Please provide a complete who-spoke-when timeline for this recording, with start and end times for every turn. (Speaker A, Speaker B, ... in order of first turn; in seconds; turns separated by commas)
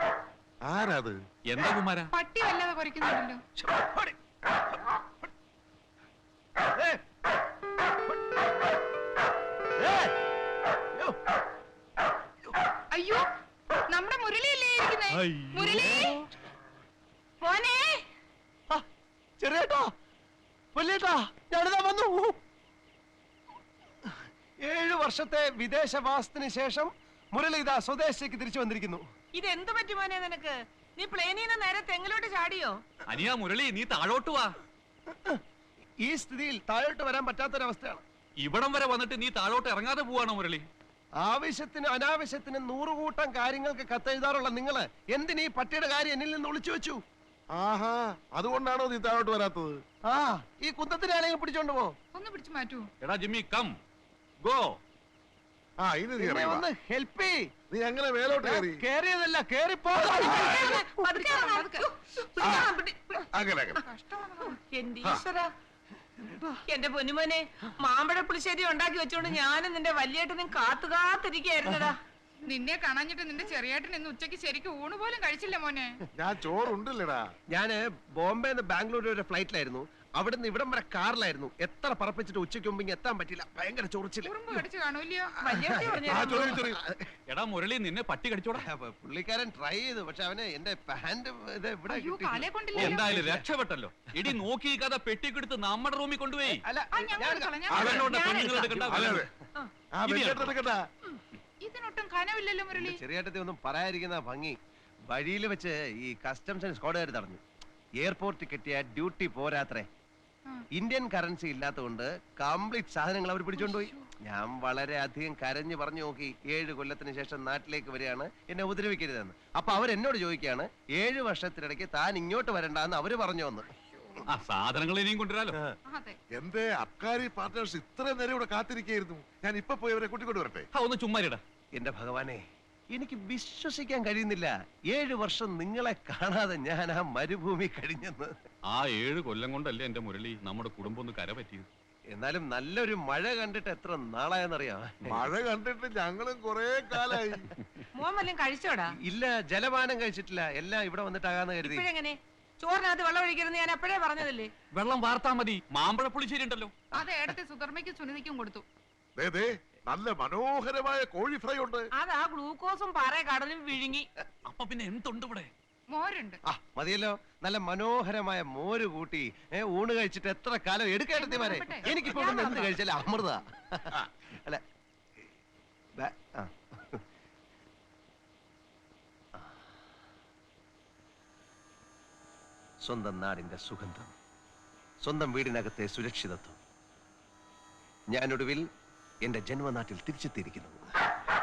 Speaker A: 0.6-1.2, Speaker B: 1.5-2.1, Speaker C: 2.1-3.4, Speaker D: 3.6-4.1, Speaker D: 9.8-10.1, Speaker C: 12.9-13.2, Speaker C: 13.9-16.2, Speaker B: 15.3-15.7, Speaker D: 15.8-16.1, Speaker E: 17.4-18.0, Speaker D: 19.4-19.9, Speaker D: 20.8-22.4, Speaker D: 24.0-29.0, Speaker E: 29.4-32.8, Speaker B: 33.1-34.6, Speaker D: 35.1-35.4, Speaker D: 36.0-38.0, Speaker B: 38.4-40.7, Speaker D: 41.2-47.0, Speaker A: 47.5-49.8, Speaker D: 50.1-51.9, Speaker C: 52.1-52.9, Speaker B: 53.0-53.8, Speaker B: 54.4-54.8, Speaker A: 55.8-56.6, Speaker D: 56.2-57.5, Speaker A: 57.7-58.8, Speaker D: 58.4-60.4, Speaker E: 60.1-63.3, Speaker A: 60.2-60.8, Speaker C: 61.0-61.9, Speaker A: 62.4-62.7, Speaker A: 63.3-63.8, Speaker C: 63.8-64.6, Speaker E: 64.6-65.5, Speaker E: 66.7-72.0, Speaker C: 72.5-76.0, Speaker A: 76.2-77.2, Speaker D: 77.5-84.3, Speaker C: 84.2-85.3, Speaker E: 85.4-86.7, Speaker D: 85.6-86.7, Speaker A: 86.0-86.9, Speaker B: 87.3-88.7, Speaker D: 88.6-93.5, Speaker C: 91.9-93.0, Speaker B: 92.8-96.6, Speaker D: 96.5-97.9, Speaker C: 97.0-98.7, Speaker B: 97.7-99.3, Speaker A: 97.7-98.1, Speaker A: 98.9-99.3, Speaker A: 100.0-100.8, Speaker B: 100.0-100.5, Speaker C: 101.6-103.0, Speaker D: 102.7-104.6, Speaker D: 105.1-107.4, Speaker D: 108.0-109.9, Speaker D: 110.8-123.7, Speaker C: 113.6-114.1, Speaker C: 123.9-124.2, Speaker B: 124.3-125.6, Speaker C: 125.9-126.2, Speaker A: 126.4-130.7, Speaker B: 130.8-131.4, Speaker D: 131.8-132.4, Speaker D: 132.9-138.3, Speaker B: 138.7-141.7, Speaker D: 142.1-145.3, Speaker A: 145.1-147.5, Speaker E: 148.0-148.9, Speaker D: 149.0-151.8, Speaker E: 151.6-154.5, Speaker B: 154.7-156.7, Speaker C: 156.9-158.6, Speaker A: 159.2-161.9, Speaker E: 162.0-164.1, Speaker B: 164.5-165.5, Speaker C: 165.9-166.4, Speaker D: 166.5-174.6, Speaker C: 171.2-172.6, Speaker D: 176.0-177.0, Speaker D: 182.8-184.1, Speaker D: 185.0-186.6, Speaker D: 188.1-188.7, Speaker D: 189.2-190.8